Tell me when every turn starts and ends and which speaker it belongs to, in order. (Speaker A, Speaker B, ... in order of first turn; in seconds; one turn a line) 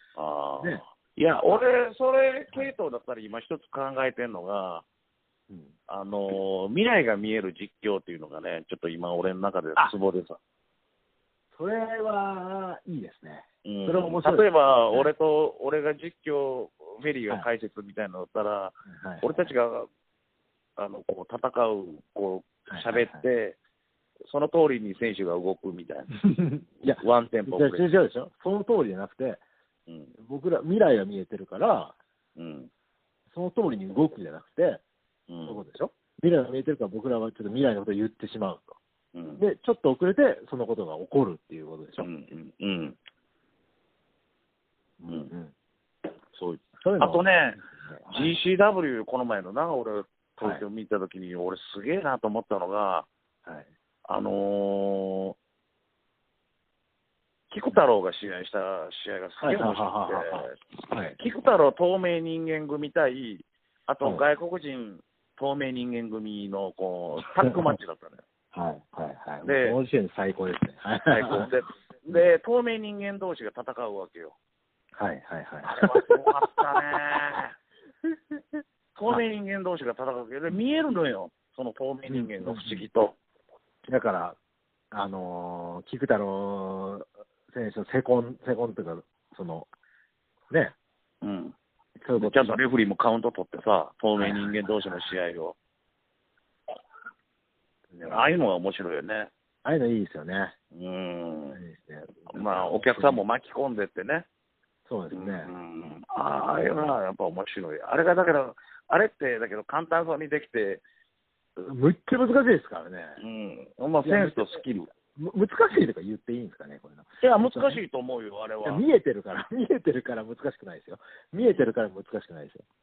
Speaker A: 0.2-4.8
Speaker B: 5.5-5.7
Speaker A: 5.9-10.4
Speaker B: 11.5-15.1
Speaker A: 13.6-19.9
Speaker B: 18.9-19.5
Speaker A: 20.8-23.6
Speaker B: 22.7-23.2
Speaker A: 24.3-26.2
Speaker B: 26.2-29.4
Speaker A: 26.8-27.9
Speaker A: 29.9-30.1
Speaker B: 30.2-32.0
Speaker A: 32.4-32.7
Speaker B: 33.3-34.8
Speaker A: 35.3-35.6
Speaker B: 35.5-38.8
Speaker A: 39.1-39.4
Speaker B: 39.4-42.1
Speaker A: 42.0-43.0
Speaker B: 45.0-45.5
Speaker A: 46.3-53.1
Speaker B: 46.8-47.2
Speaker B: 47.8-48.3
Speaker A: 54.1-55.4
Speaker A: 57.5-60.6
Speaker B: 59.4-61.2
Speaker A: 61.2-68.2
Speaker B: 67.5-67.7
Speaker B: 68.5-71.5
Speaker A: 69.4-69.8
Speaker A: 71.1-74.3
Speaker B: 74.9-76.2
Speaker A: 75.6-77.5
Speaker A: 78.9-83.2
Speaker B: 82.1-82.8
Speaker B: 83.9-84.4
Speaker B: 84.9-89.7
Speaker A: 91.2-91.5
Speaker B: 92.0-92.6
Speaker A: 92.2-95.5
Speaker B: 94.2-95.1
Speaker B: 97.9-98.3
Speaker A: 98.0-99.3
Speaker B: 99.6-100.5
Speaker A: 100.7-101.6
Speaker B: 101.5-103.2
Speaker A: 102.3-104.2
Speaker B: 104.8-105.5
Speaker A: 105.1-110.8
Speaker B: 111.6-113.2
Speaker A: 113.2-114.9
Speaker B: 114.0-117.8
Speaker A: 117.2-118.8
Speaker B: 118.6-122.6
Speaker A: 121.4-121.7